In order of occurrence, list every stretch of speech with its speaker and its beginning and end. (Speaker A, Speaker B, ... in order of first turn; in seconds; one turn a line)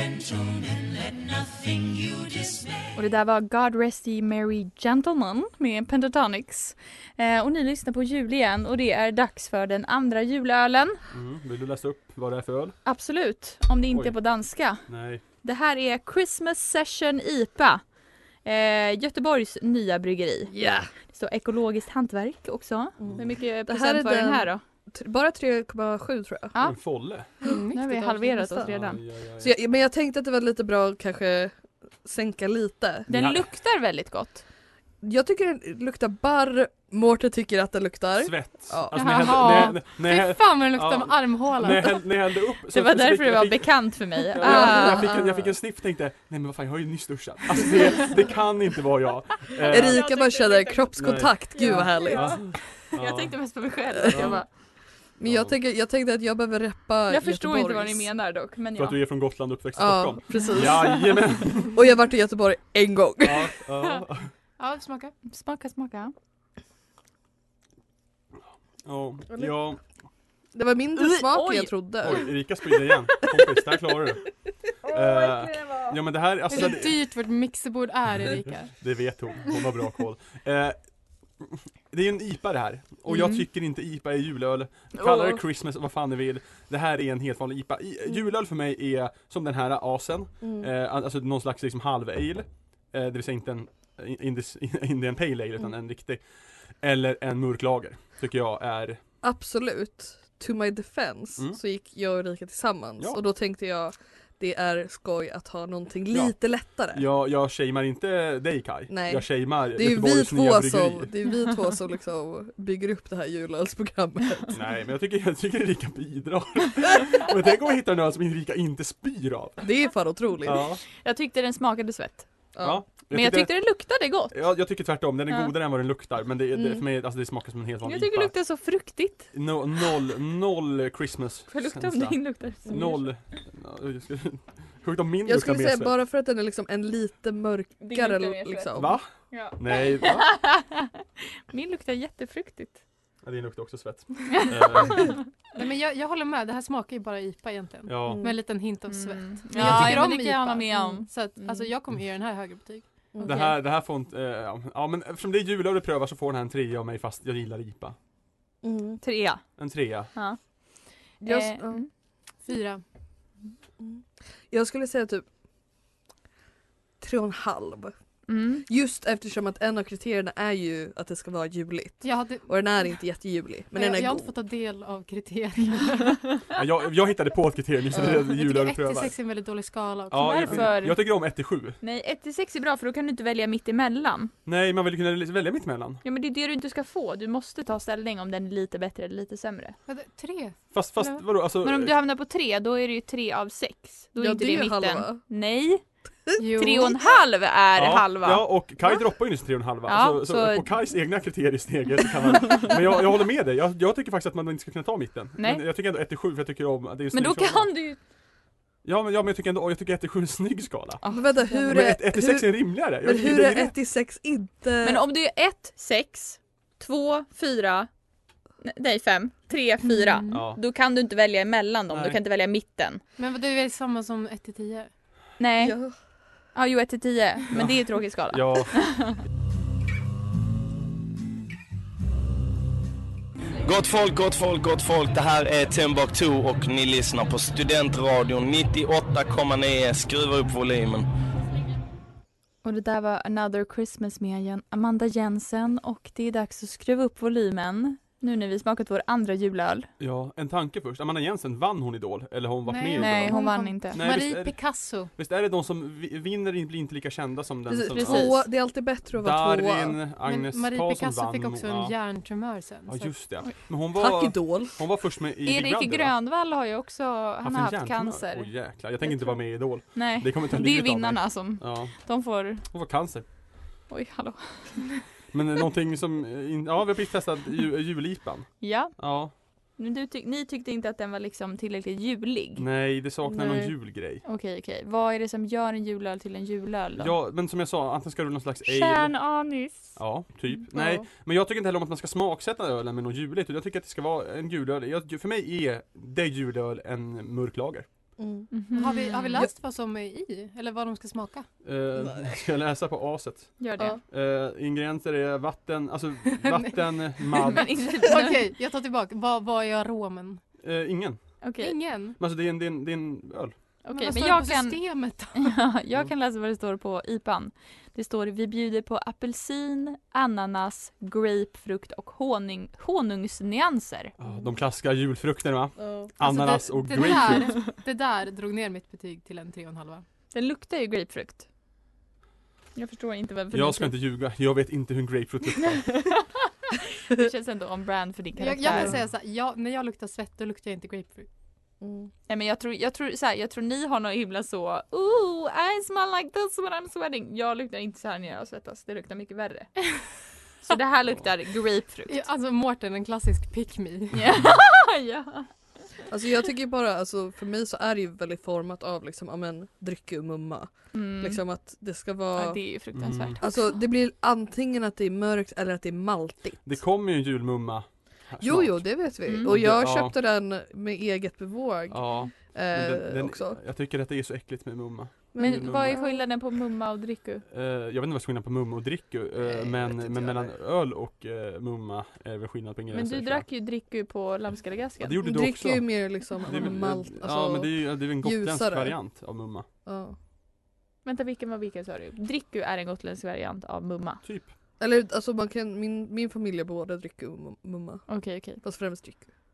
Speaker A: 2.9-11.0
Speaker B: 11.1-12.8
Speaker A: 12.8-14.9
Speaker B: 14.7-15.2
Speaker A: 15.4-17.8
Speaker A: 18.4-20.5
Speaker C: 20.5-20.9
Speaker A: 21.1-24.6
Speaker C: 23.0-26.5
Speaker B: 26.6-27.3
Speaker D: 27.4-28.4
Speaker A: 27.4-29.0
Speaker C: 28.3-28.7
Speaker B: 28.6-29.5
Speaker C: 29.4-33.1
Speaker A: 33.1-34.4
Speaker B: 33.1-33.5
Speaker C: 35.0-39.7
Speaker B: 38.2-50.1
Speaker D: 38.9-42.0
Speaker A: 42.7-45.1
Speaker C: 44.4-45.5
Speaker C: 49.6-52.6
Speaker A: 49.6-54.5
Speaker B: 51.0-54.4
Speaker C: 54.0-54.4
Speaker C: 55.2-58.1
Speaker B: 55.2-55.5
Speaker A: 57.1-59.0
Speaker B: 58.7-61.8
Speaker C: 59.7-61.2
Speaker C: 61.7-63.5
Speaker B: 63.2-64.3
Speaker D: 64.6-65.1
Speaker A: 65.3-66.1
Speaker B: 68.8-69.8
Speaker C: 70.5-72.4
Speaker A: 71.0-72.2
Speaker B: 72.0-74.3
Speaker B: 74.8-77.0
Speaker C: 74.9-75.8
Speaker D: 76.5-78.8
Speaker B: 78.3-80.8
Speaker B: 81.4-96.2
Speaker A: 83.1-83.4
Speaker A: 85.0-85.4
Speaker C: 90.4-90.7
Speaker B: 96.8-99.0
Speaker C: 99.2-107.0
Speaker B: 106.1-111.1
Speaker C: 108.9-114.6
Speaker B: 114.5-119.6
Speaker C: 119.6-120.7
Speaker B: 120.4-120.8
Speaker A: 121.0-122.3
Speaker C: 122.5-122.8
Speaker B: 122.6-123.6
Speaker A: 123.1-124.3
Speaker B: 124.3-128.4
Speaker C: 126.5-126.8
Speaker A: 127.8-129.3
Speaker B: 129.3-135.9
Speaker A: 131.5-133.1
Speaker C: 135.2-139.0
Speaker A: 137.8-140.9
Speaker B: 138.7-140.3
Speaker A: 141.5-142.8
Speaker B: 143.2-145.2
Speaker D: 145.5-153.2
Speaker B: 147.8-148.2
Speaker C: 148.1-148.4
Speaker A: 148.9-151.7
Speaker B: 149.6-150.0
Speaker C: 153.1-153.4
Speaker A: 153.2-153.6
Speaker B: 153.2-157.9
Speaker C: 158.6-159.0
Speaker A: 159.0-161.9
Speaker B: 159.6-160.1
Speaker C: 161.2-161.8
Speaker D: 162.4-162.8
Speaker C: 163.8-165.2
Speaker C: 167.0-167.9
Speaker A: 168.3-168.7
Speaker C: 168.6-174.3
Speaker D: 172.0-172.8
Speaker D: 173.7-176.3
Speaker B: 176.5-179.1
Speaker D: 178.0-180.6
Speaker B: 180.1-181.8
Speaker A: 180.2-181.2
Speaker A: 181.8-184.3
Speaker B: 184.4-186.0
Speaker A: 186.0-189.8
Speaker D: 189.9-191.2
Speaker B: 190.7-191.9
Speaker A: 191.6-198.4
Speaker C: 194.2-195.2
Speaker D: 196.4-197.0
Speaker B: 197.8-207.7
Speaker A: 199.8-200.7
Speaker A: 205.4-205.6
Speaker A: 207.1-208.0
Speaker B: 208.8-211.0
Speaker A: 211.0-211.7
Speaker C: 211.1-215.0
Speaker B: 211.7-213.7
Speaker A: 214.8-217.9
Speaker A: 218.6-223.0
Speaker D: 220.1-220.4
Speaker B: 220.3-220.6
Speaker B: 221.9-222.2
Speaker D: 223.2-224.9
Speaker A: 225.4-225.8
Speaker C: 225.6-225.9
Speaker A: 226.5-229.1
Speaker B: 227.5-229.1
Speaker E: 233.6-241.1
Speaker A: 242.6-249.9
Speaker B: 250.0-258.5
Speaker D: 252.7-255.1
Speaker A: 253.0-254.0
Speaker C: 257.7-260.0
Speaker A: 257.9-258.4
Speaker B: 259.1-261.9
Speaker D: 260.2-263.1
Speaker B: 262.9-266.1
Speaker C: 263.9-264.8
Speaker A: 265.4-268.5
Speaker B: 267.4-273.2
Speaker A: 269.0-272.6
Speaker A: 273.9-274.9
Speaker B: 275.3-279.3
Speaker A: 278.6-282.6
Speaker B: 282.6-284.2
Speaker C: 283.2-283.7
Speaker A: 284.2-287.1
Speaker B: 287.0-289.2
Speaker A: 288.6-290.0
Speaker B: 289.9-297.9
Speaker C: 298.2-298.5
Speaker A: 298.5-299.4
Speaker D: 298.7-301.5
Speaker B: 301.6-307.8
Speaker C: 302.0-302.4
Speaker A: 303.6-304.0
Speaker D: 307.5-310.4
Speaker A: 307.5-308.4
Speaker B: 310.6-311.4
Speaker A: 311.4-311.8
Speaker D: 311.6-312.2
Speaker B: 312.2-313.5
Speaker A: 313.8-324.1
Speaker D: 313.9-315.5
Speaker B: 324.2-327.6
Speaker C: 324.2-324.5
Speaker C: 325.8-326.1
Speaker D: 326.2-330.0
Speaker A: 330.3-331.5
Speaker A: 332.7-333.9
Speaker B: 333.5-336.0
Speaker A: 337.1-338.9
Speaker D: 338.4-341.3
Speaker C: 341.8-342.1
Speaker A: 342.3-349.9
Speaker A: 350.6-352.3
Speaker D: 352.1-354.4
Speaker A: 354.1-355.8
Speaker C: 356.1-362.7
Speaker A: 360.9-361.4
Speaker A: 362.3-363.8
Speaker B: 362.9-363.4
Speaker C: 363.4-366.8
Speaker B: 366.6-370.1
Speaker C: 368.4-373.6
Speaker A: 369.2-369.5
Speaker B: 371.9-376.0
Speaker C: 375.3-376.2
Speaker A: 375.4-377.4
Speaker B: 377.5-383.4
Speaker C: 379.4-380.5
Speaker A: 382.9-385.1
Speaker B: 385.0-389.6
Speaker C: 385.2-389.0
Speaker C: 389.8-390.1
Speaker A: 391.0-394.2
Speaker B: 394.2-394.5
Speaker C: 394.8-399.3
Speaker A: 398.1-398.6